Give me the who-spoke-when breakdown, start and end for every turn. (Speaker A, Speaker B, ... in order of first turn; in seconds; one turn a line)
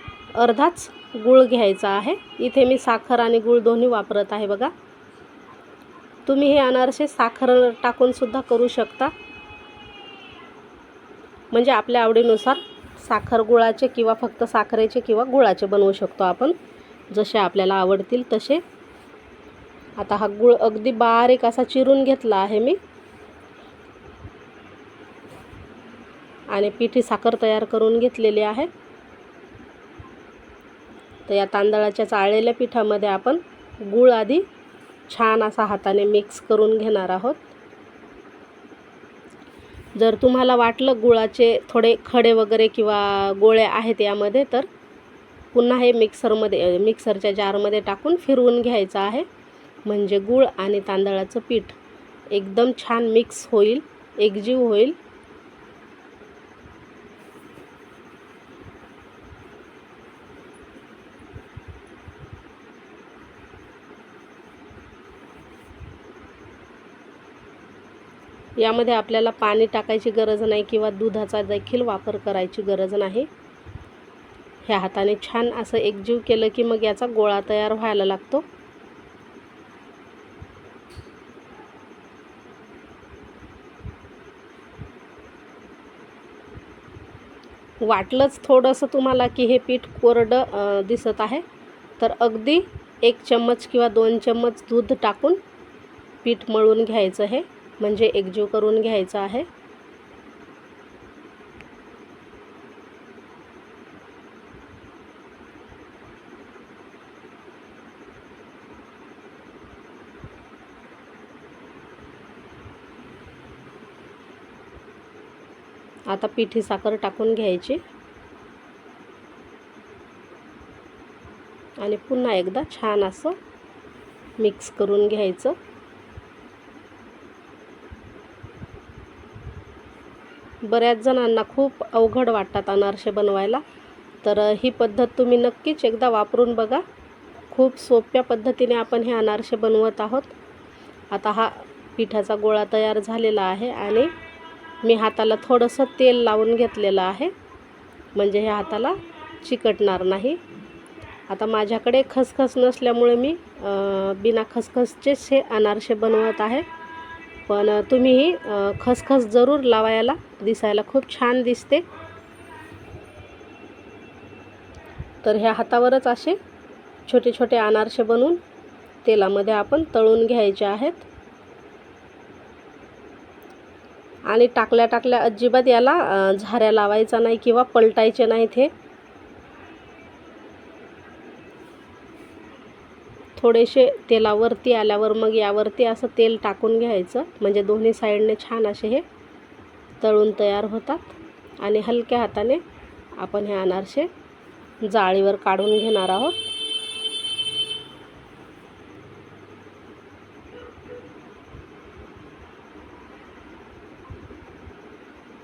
Speaker A: 0.3-4.7
Speaker A: 6.2-9.1
Speaker A: 11.5-16.5
Speaker A: 17.1-18.6
Speaker A: 20.0-22.8
Speaker A: 26.5-28.7
Speaker A: 31.3-34.5
Speaker A: 35.1-37.5
Speaker A: 39.9-44.7
Speaker A: 45.5-49.2
Speaker A: 49.8-51.8
Speaker A: 52.3-55.0
Speaker A: 68.6-73.3
Speaker A: 74.6-78.5
Speaker A: 87.8-91.4
Speaker A: 92.0-95.4
Speaker A: 96.2-99.5
Speaker A: 116.1-117.8
Speaker A: 121.8-123.4
Speaker A: 124.4-125.6
Speaker A: 130.6-133.6
Speaker A: 134.2-136.8
Speaker A: 137.5-140.3
Speaker A: 141.1-144.1
Speaker A: 144.8-147.3
Speaker A: 148.1-150.4
Speaker A: 151.3-156.7
Speaker A: 157.5-161.8
Speaker A: 165.2-166.4
Speaker A: 167.1-168.4
Speaker A: 169.0-171.1
Speaker A: 174.3-178.7
Speaker A: 183.3-189.0
Speaker A: 190.0-192.6
Speaker A: 193.2-194.1
Speaker A: 194.8-196.4